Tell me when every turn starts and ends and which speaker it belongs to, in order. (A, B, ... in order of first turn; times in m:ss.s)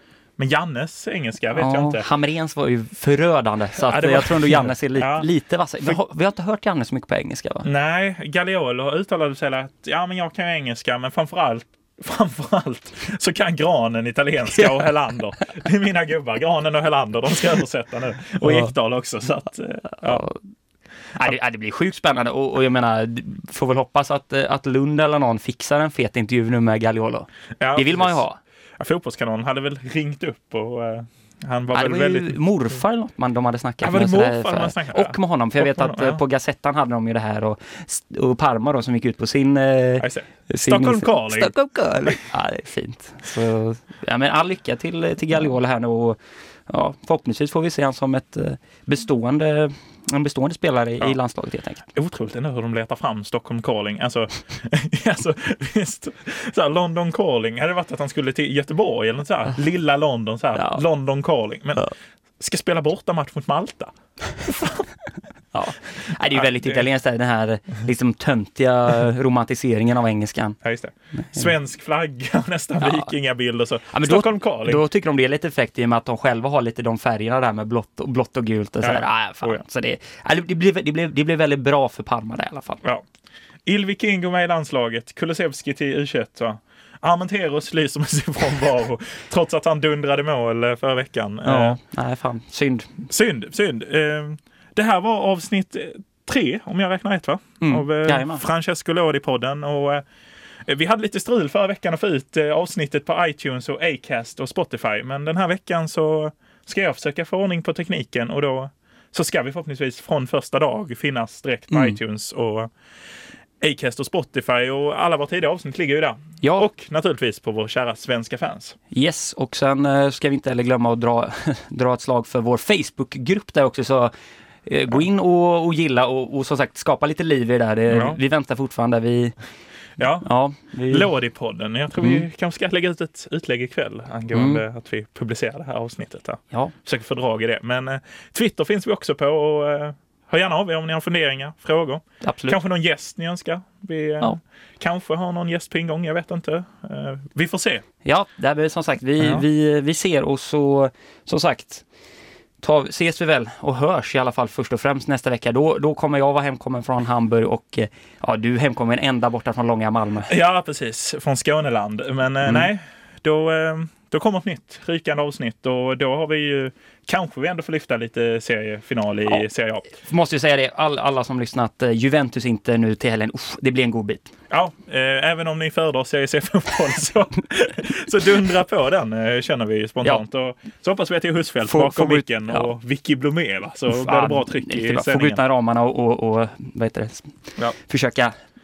0:00.4-0:02.1 A
0:01.6-0:07.7 B
0:03.8-0:05.3 A
0:07.6-0:20.3 A
0:20.0-0:20.4 B
0:21.2-0:28.4 B
0:27.6-0:28.2 A
0:28.8-0:32.4 A
0:31.7-0:51.8 B
0:33.8-0:36.2 A
0:40.0-0:42.2 A
0:51.9-1:04.9 A
1:05.5-1:10.6 B
1:10.6-1:14.8 A
1:12.8-1:13.1 B
1:13.9-1:22.8 B
1:18.8-1:19.6 A
1:23.7-1:31.8 A
1:31.4-1:32.9 B
1:33.1-1:40.0 A
1:37.6-1:38.4 B
1:40.7-1:52.7 A
1:51.7-1:52.0 B
1:53.6-1:58.8 A
1:58.9-2:04.1 B
2:04.7-2:09.4 B
2:07.9-2:08.2 A
2:10.0-2:10.3 A
2:10.2-2:11.1 B
2:10.9-2:27.8 A
2:12.0-2:12.2 B
2:14.3-2:14.6 B
2:22.2-2:22.6 B
2:28.0-2:31.8 B
2:32.6-2:40.3 B
2:40.3-2:49.9 A
2:50.0-2:54.3 B
2:54.5-3:05.4 A
3:01.7-3:02.7 B
3:03.9-3:08.3 B